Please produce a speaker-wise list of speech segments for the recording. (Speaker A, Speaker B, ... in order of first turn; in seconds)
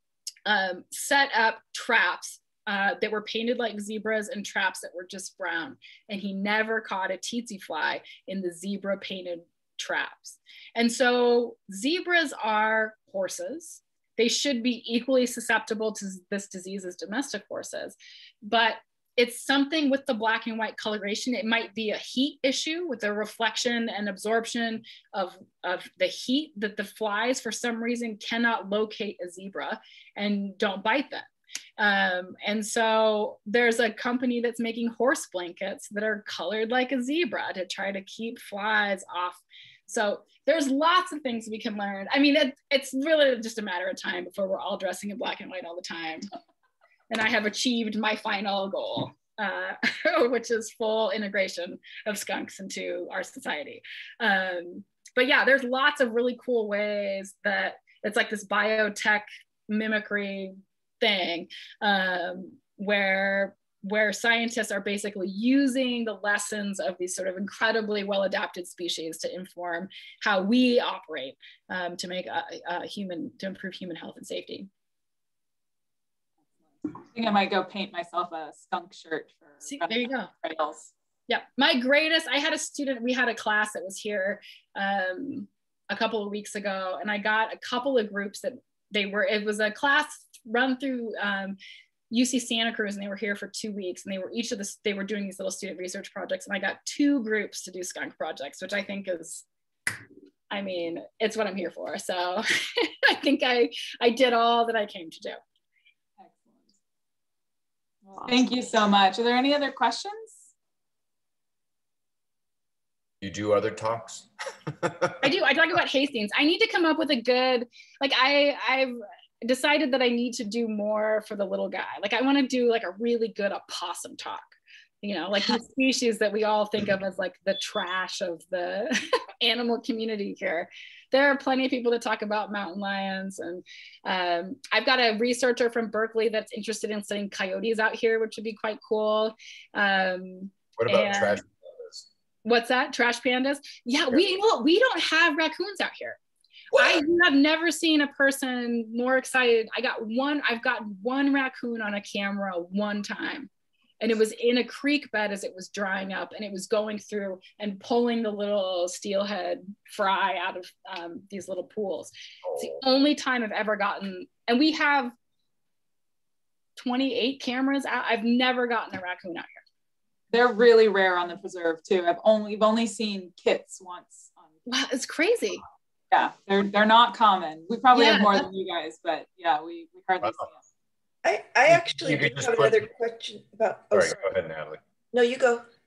Speaker A: 0.5-46.3, 47.1-74.7, 79.7-80.3, 81.3-91.6, 92.1-99.4, 100.5-105.4, 115.2-141.4, 142.4-146.2, 146.8-153.5, 154.0-165.1, 166.8-169.6, 174.7-175.6, 177.9-178.4
Speaker B: 77.0-80.9, 106.2-106.7, 108.2-110.4, 170.3-174.7, 176.1-180.6
Speaker C: 113.2-115.1, 140.8-142.0, 162.5-162.8, 180.2-180.5, 182.0-182.8, 183.9-184.8
Speaker D: 181.2-184.2, 185.1-185.6